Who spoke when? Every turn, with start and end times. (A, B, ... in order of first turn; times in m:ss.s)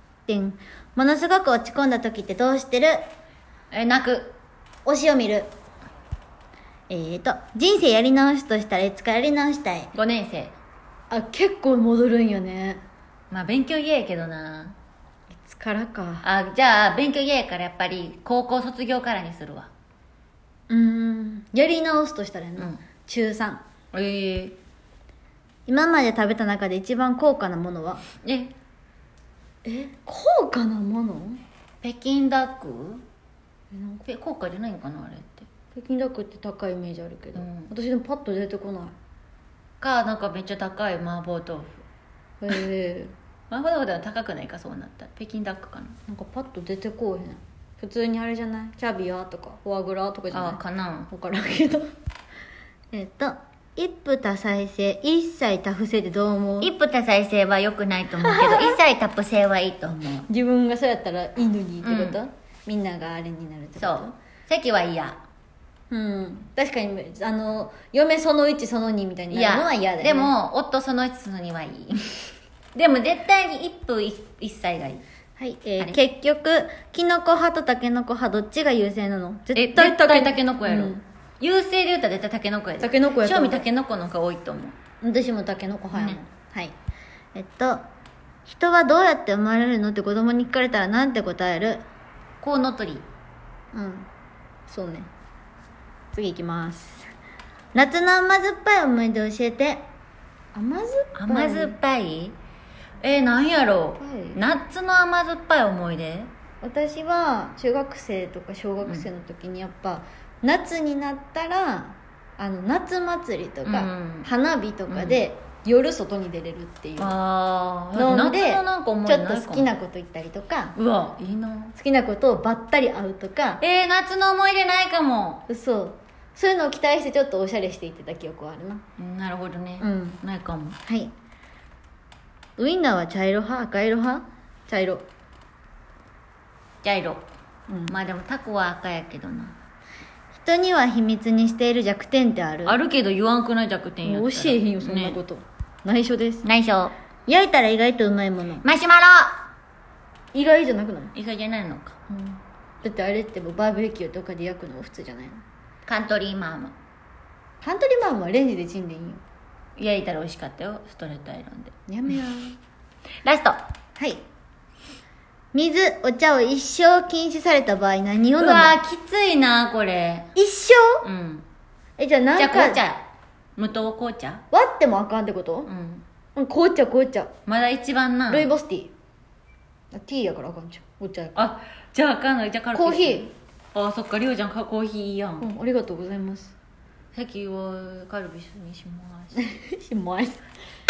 0:00.3-0:03.0 A
0:03.7-0:04.4 B
0:04.8-0:05.5 A
0:06.9-0:09.9 A
0:09.9-0:10.6 B
0:11.1-0:12.8 A
0:13.3-0:14.7 B
0:15.4-0:16.2 A
0:16.2-0:19.7 B
0:20.7-0:23.6 A
0:22.6-0:22.8 B
0:23.9-0:24.6 B
0:25.7-0:28.0 A
0:28.2-0:28.6 B
0:29.6-0:31.4 A
0:31.8-0:33.0 B
0:33.7-0:34.0 A
0:34.0-0:35.5 B
0:35.7-0:38.9 A
0:37.3-0:37.7 B
0:39.8-0:41.8 B
0:42.4-0:43.1 A
0:43.5-0:46.0 B
0:46.1-0:50.6 A
0:50.3-0:51.1 B
0:51.1-0:51.9 A
0:52.9-0:56.7 A
0:56.6-1:00.3 B
0:58.2-0:58.8 A
1:00.3-1:04.1 A
1:01.8-1:02.2 B
1:03.8-1:05.2 B
1:05.9-1:10.3 A
1:09.3-1:15.0 B
1:15.4-1:21.0 A
1:19.5-1:24.8 B
1:22.8-1:23.6 A
1:25.0-1:26.7 A
1:25.9-1:26.2 B
1:27.3-1:27.8 A
1:28.4-1:31.8 A
1:32.4-1:33.0 B
1:33.7-1:34.1 A
1:34.7-1:35.1 A
1:36.1-1:37.1 A
1:37.7-1:39.8 A
1:40.5-1:41.7 A
1:41.1-1:42.4 B
1:43.0-1:46.3 B
1:44.0-1:44.4 A
1:46.6-1:57.1 A
1:48.8-1:49.1 B
1:53.6-1:54.3 B
1:54.9-1:55.2 B
1:57.0-1:59.7 B
1:57.9-2:00.8 A
2:00.8-2:01.8 B
2:01.8-2:03.6 A
2:03.6-2:05.5 B
2:05.5-2:08.8 A
2:09.0-2:10.8 B
2:09.8-2:10.2 A
2:10.8-2:11.1 A
2:12.6-2:15.0 A
2:16.8-2:17.3 B
2:17.7-2:17.9 A
2:17.9-2:19.6 B
2:20.3-2:22.8 A
2:22.6-2:25.2 B
2:24.0-2:26.4 A
2:26.4-2:26.9 B
2:27.3-2:28.6 A
2:28.6-2:29.4 B
2:30.3-2:31.1 A
2:31.1-2:32.0 B
2:32.1-2:35.4 A
2:35.8-2:36.7 B
2:37.6-2:39.2 A
2:39.8-2:41.7 B
2:41.9-2:42.6 A
2:43.2-2:43.6 B
2:44.0-2:44.2 A
2:45.5-2:48.7 A
2:48.4-2:50.3 B
2:50.4-2:51.0 A
2:51.0-2:51.4 B
2:52.0-2:52.8 A
2:52.4-2:53.0 B
2:53.6-2:54.4 B
2:54.5-2:55.7 A
2:55.6-2:56.0 B
2:56.4-2:57.3 A
2:57.4-2:58.5 B
2:58.3-2:58.9 A
2:59.9-3:01.5 A
3:01.3-3:05.5 B
3:02.7-3:03.3 A
3:05.4-3:06.5 A
3:07.1-3:09.5 B
3:09.4-3:10.4 A